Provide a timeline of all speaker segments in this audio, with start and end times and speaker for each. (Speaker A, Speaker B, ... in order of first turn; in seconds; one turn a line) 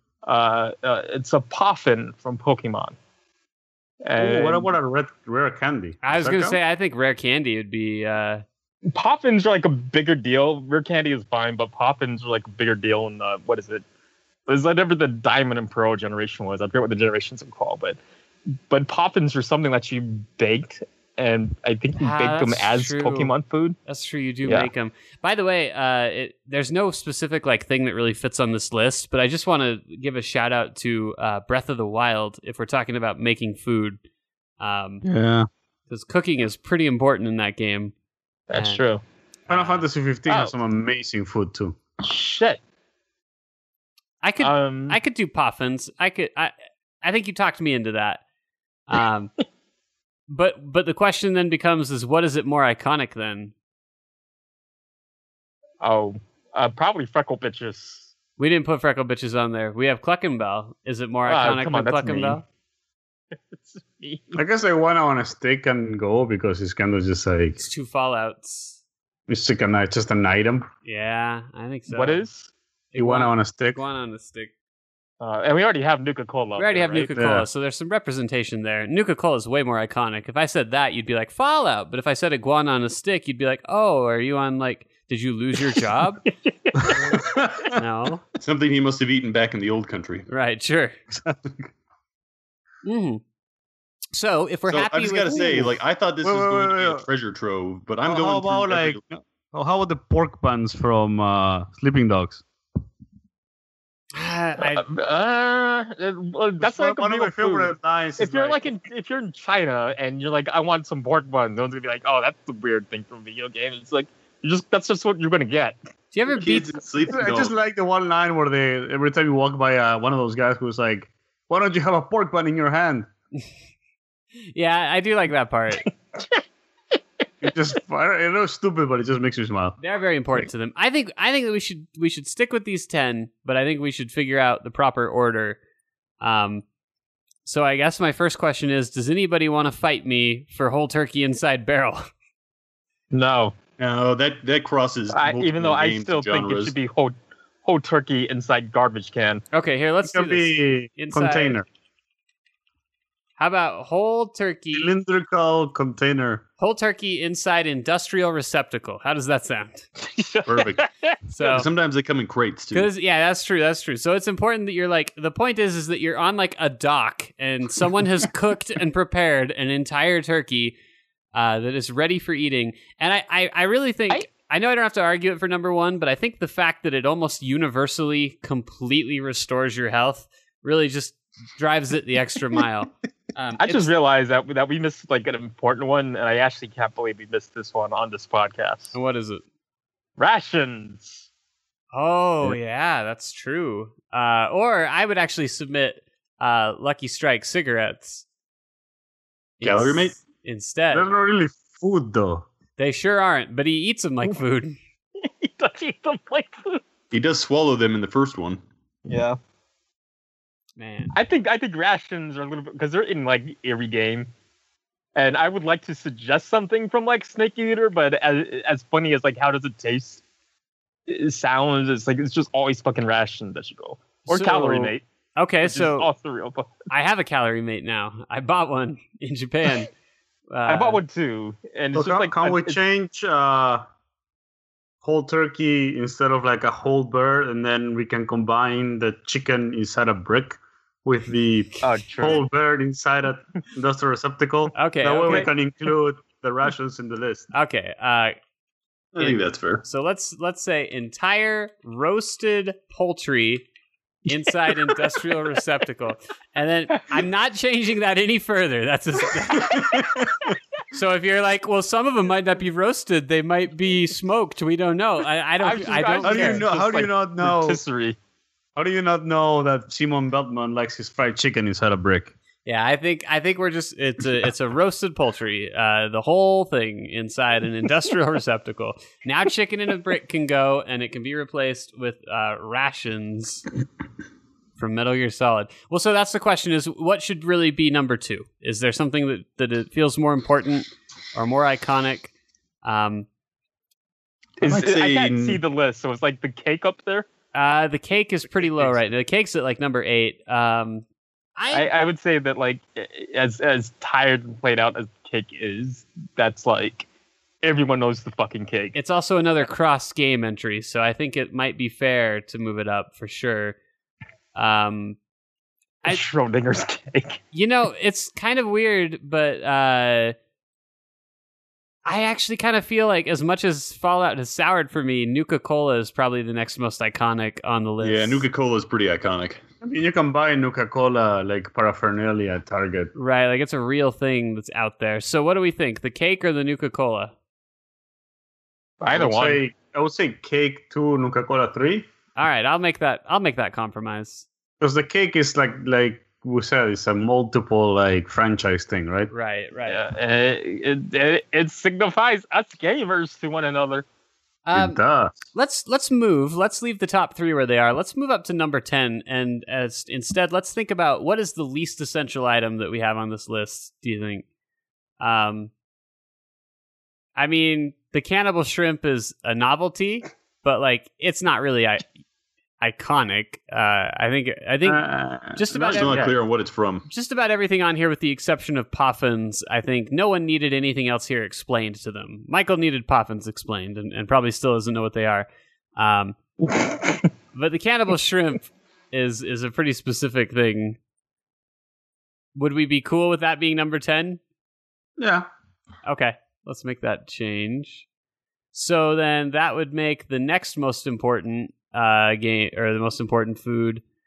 Speaker A: 0.2-3.0
Speaker A: 4.0-4.7
Speaker B: 4.2-6.6
Speaker C: 6.0-8.4
Speaker A: 8.9-13.8
Speaker A: 14.5-18.0
Speaker A: 18.7-23.8
Speaker C: 22.0-23.3
Speaker C: 23.9-34.0
Speaker C: 34.6-35.0
Speaker B: 35.0-35.5
Speaker C: 35.9-37.9
Speaker A: 38.5-39.0
Speaker C: 38.5-38.8
Speaker C: 39.5-39.9
Speaker B: 39.5-41.8
Speaker A: 40.3-40.5
Speaker A: 42.0-42.6
Speaker C: 44.2-48.2
Speaker A: 44.4-45.0
Speaker C: 48.9-49.3
Speaker C: 50.3-53.5
Speaker A: 55.8-58.1
Speaker C: 58.4-62.4
Speaker A: 61.2-62.4
Speaker A: 63.3-64.3
Speaker B: 64.3-67.6
Speaker C: 67.6-68.8
Speaker B: 69.3-70.7
Speaker C: 70.8-72.2
Speaker A: 71.9-72.5
Speaker C: 72.9-74.5
Speaker B: 73.0-73.8
Speaker A: 75.2-77.1
Speaker C: 76.6-86.2
Speaker B: 77.1-77.5
Speaker A: 86.2-87.2
Speaker B: 86.8-87.8
Speaker C: 87.7-88.2
Speaker D: 88.4-90.3
Speaker C: 90.3-91.0
Speaker B: 91.1-91.7
Speaker C: 92.8-93.2
Speaker C: 94.1-95.7
Speaker D: 94.7-99.0
Speaker B: 95.3-95.7
Speaker B: 96.2-97.0
Speaker B: 98.0-102.4
Speaker C: 104.1-104.8
Speaker A: 104.6-115.8
Speaker B: 106.6-108.6
Speaker C: 116.1-116.8
Speaker D: 116.3-117.5
Speaker B: 117.1-123.1
Speaker C: 124.5-125.9
Speaker B: 127.4-129.8
Speaker C: 129.8-135.6
Speaker C: 136.2-136.6
Speaker C: 137.4-142.0
Speaker A: 143.1-143.5
Speaker D: 143.8-146.7
Speaker A: 145.1-149.4
Speaker C: 149.5-151.6
Speaker B: 150.0-151.7
Speaker C: 153.4-154.9
Speaker B: 154.7-156.4
Speaker C: 156.6-159.9
Speaker A: 160.0-161.2
Speaker C: 161.3-161.7
Speaker D: 161.4-162.9
Speaker C: 162.7-170.7
Speaker C: 171.3-183.9
Speaker A: 183.6-188.9
Speaker C: 188.9-189.4
Speaker A: 190.2-191.3
Speaker C: 191.9-198.2
Speaker C: 199.6-201.1
Speaker D: 199.6-200.2
Speaker B: 200.9-202.4
Speaker C: 202.8-204.8
Speaker A: 205.2-206.8
Speaker D: 207.1-208.6
Speaker A: 209.1-209.4
Speaker C: 210.8-211.1
Speaker A: 211.1-214.3
Speaker A: 215.1-220.2
Speaker A: 221.1-225.0
Speaker C: 224.2-226.1
Speaker A: 225.6-226.7
Speaker C: 226.9-229.9
Speaker C: 230.5-231.0
Speaker A: 230.7-232.8
Speaker B: 231.9-233.8
Speaker B: 235.0-247.5
Speaker A: 241.8-242.4
Speaker C: 244.7-245.5
Speaker C: 247.5-248.4
Speaker D: 249.1-249.8
Speaker C: 249.2-253.7
Speaker C: 254.2-260.0
Speaker B: 259.7-260.4
Speaker C: 260.9-266.6
Speaker A: 265.6-268.1
Speaker B: 266.2-267.8
Speaker B: 268.8-272.3
Speaker C: 272.6-283.6
Speaker C: 284.8-292.3
Speaker C: 292.8-293.3
Speaker D: 294.6-295.6
Speaker A: 294.6-297.3
Speaker C: 297.5-301.0
Speaker C: 301.6-301.9
Speaker A: 301.7-307.1
Speaker A: 307.6-308.9
Speaker C: 308.9-313.8
Speaker C: 314.5-315.2
Speaker A: 316.0-317.4
Speaker C: 317.5-320.4
Speaker C: 322.0-328.4
Speaker D: 328.0-329.6
Speaker B: 329.8-333.1
Speaker C: 333.1-337.3
Speaker A: 339.0-339.6
Speaker B: 339.1-342.1
Speaker C: 342.4-344.4
Speaker B: 344.8-349.3
Speaker C: 349.3-350.0
Speaker A: 349.9-354.1
Speaker C: 354.6-355.0
Speaker B: 354.7-355.4
Speaker C: 355.5-364.4
Speaker C: 365.2-365.7
Speaker C: 367.4-372.1
Speaker C: 372.8-376.3
Speaker B: 374.8-376.3
Speaker D: 375.7-377.1
Speaker C: 377.1-386.4
Speaker C: 387.5-391.0
Speaker C: 392.5-394.4
Speaker B: 395.2-395.5
Speaker C: 396.0-398.1
Speaker C: 398.7-404.0